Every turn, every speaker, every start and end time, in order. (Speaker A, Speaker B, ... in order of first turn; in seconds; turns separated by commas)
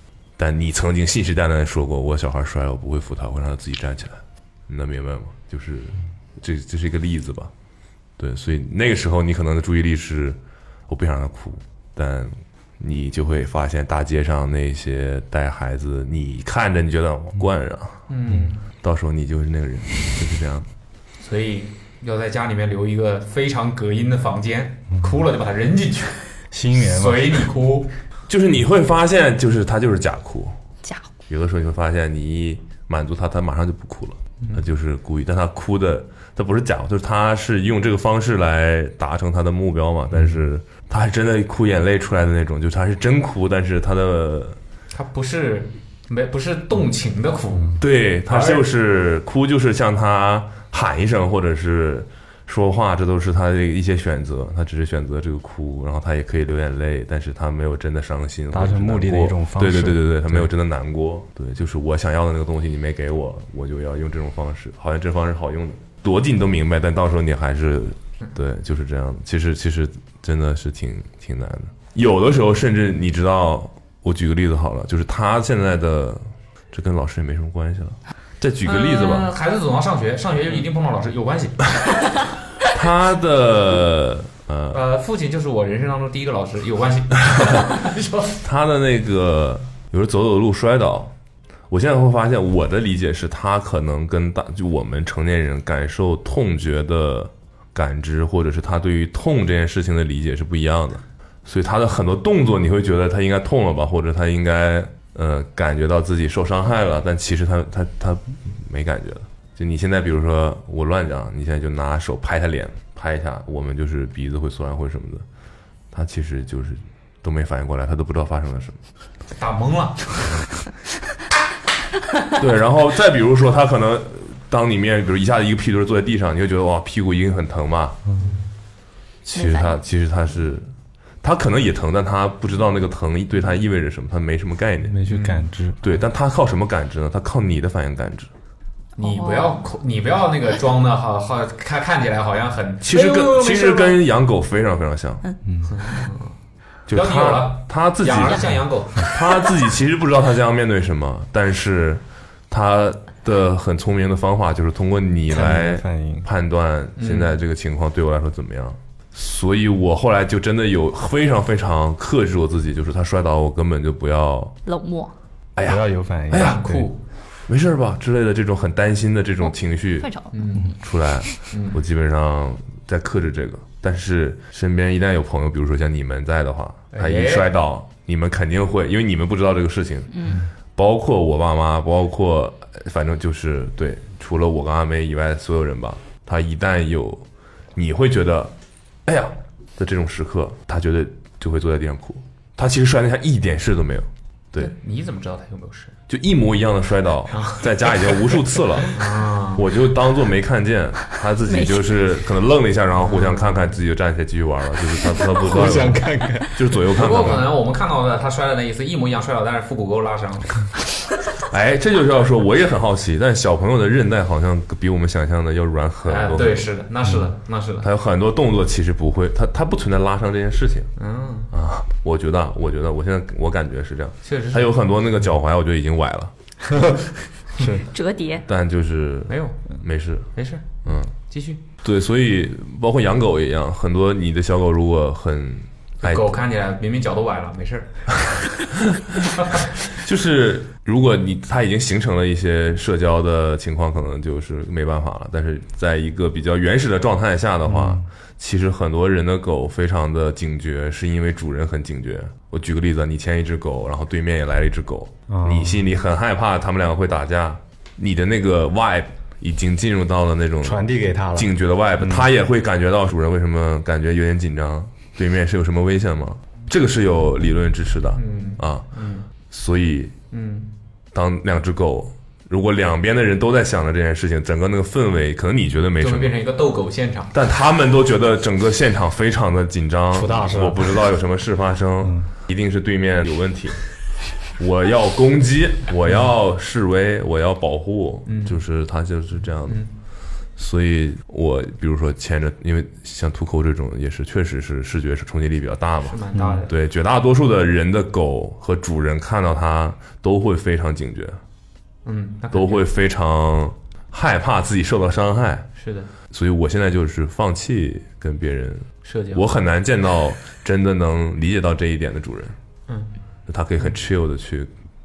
Speaker A: 0.4-7.5, Speaker A: 8.2-18.1, Speaker B: 18.1-18.6, Speaker A: 18.8-20.7, Speaker B: 21.2-27.9, Speaker C: 26.5-27.5, Speaker A: 28.3-30.6, Speaker A: 31.3-44.6, Speaker B: 44.9-48.6, Speaker A: 47.8-79.3, Speaker C: 58.5-60.5, Speaker B: 78.6-81.7, Speaker A: 82.7-84.8, Speaker B: 84.7-88.4, Speaker A: 88.4-91.1, Speaker A: 91.7-115.2, Speaker A: 115.9-118.8, Speaker B: 119.3-120.4, Speaker A: 122.4-128.0, Speaker B: 128.2-128.4, Speaker A: 129.2-130.7, Speaker D: 129.3-129.8, Speaker A: 131.2-135.0, Speaker C: 134.9-135.8, Speaker B: 135.1-135.4, Speaker A: 135.8-138.3, Speaker B: 138.9-144.0, Speaker D: 139.0-139.6, Speaker A: 142.8-145.2, Speaker B: 145.7-146.4, Speaker A: 146.9-164.6, Speaker B: 146.9-149.1, Speaker C: 155.3-156.3, Speaker B: 157.0-157.3, Speaker D: 164.6-165.1, Speaker A: 165.6-166.6, Speaker C: 165.6-166.9, Speaker B: 166.3-167.0, Speaker A: 167.5-170.1, Speaker D: 169.4-170.4, Speaker B: 170.3-170.7, Speaker A: 170.7-188.5, Speaker B: 171.5-171.8, Speaker B: 176.9-177.5, Speaker D: 180.1-180.4, Speaker A: 189.1-194.7, Speaker B: 194.6-195.9, Speaker A: 196.1-199.0, Speaker B: 197.3-197.7, Speaker B: 198.9-199.7, Speaker A: 199.5-207.5, Speaker D: 201.4-201.9, Speaker B: 203.0-203.7, Speaker C: 205.4-206.6, Speaker B: 206.9-210.7, Speaker A: 211.5-216.6, Speaker B: 216.0-217.9, Speaker A: 217.8-220.9, Speaker B: 221.0-221.5, Speaker A: 221.5-226.3, Speaker B: 224.2-224.7, Speaker C: 226.7-227.0, Speaker C: 227.6-227.8, Speaker D: 227.9-228.4, Speaker A: 228.5-230.3, Speaker B: 229.3-229.6, Speaker B: 230.3-231.6, Speaker A: 230.8-231.1, Speaker A: 231.8-236.3, Speaker B: 236.0-238.1, Speaker A: 239.9-260.8, Speaker C: 247.7-248.0, Speaker C: 255.3-255.8, Speaker C: 260.6-262.3, Speaker A: 261.3-268.9, Speaker B: 268.1-269.3, Speaker A: 269.5-270.1, Speaker B: 270.3-270.7, Speaker A: 271.1-276.3, Speaker B: 276.0-277.3, Speaker A: 277.3-289.9, Speaker C: 280.1-281.0, Speaker B: 288.2-288.6, Speaker A: 290.6-301.4, Speaker B: 296.0-296.7, Speaker C: 296.3-296.6, Speaker B: 302.0-302.9, Speaker A: 302.5-305.7, Speaker B: 305.8-306.1, Speaker A: 306.3-312.6, Speaker B: 309.0-309.4, Speaker B: 312.9-313.1, Speaker A: 313.5-314.7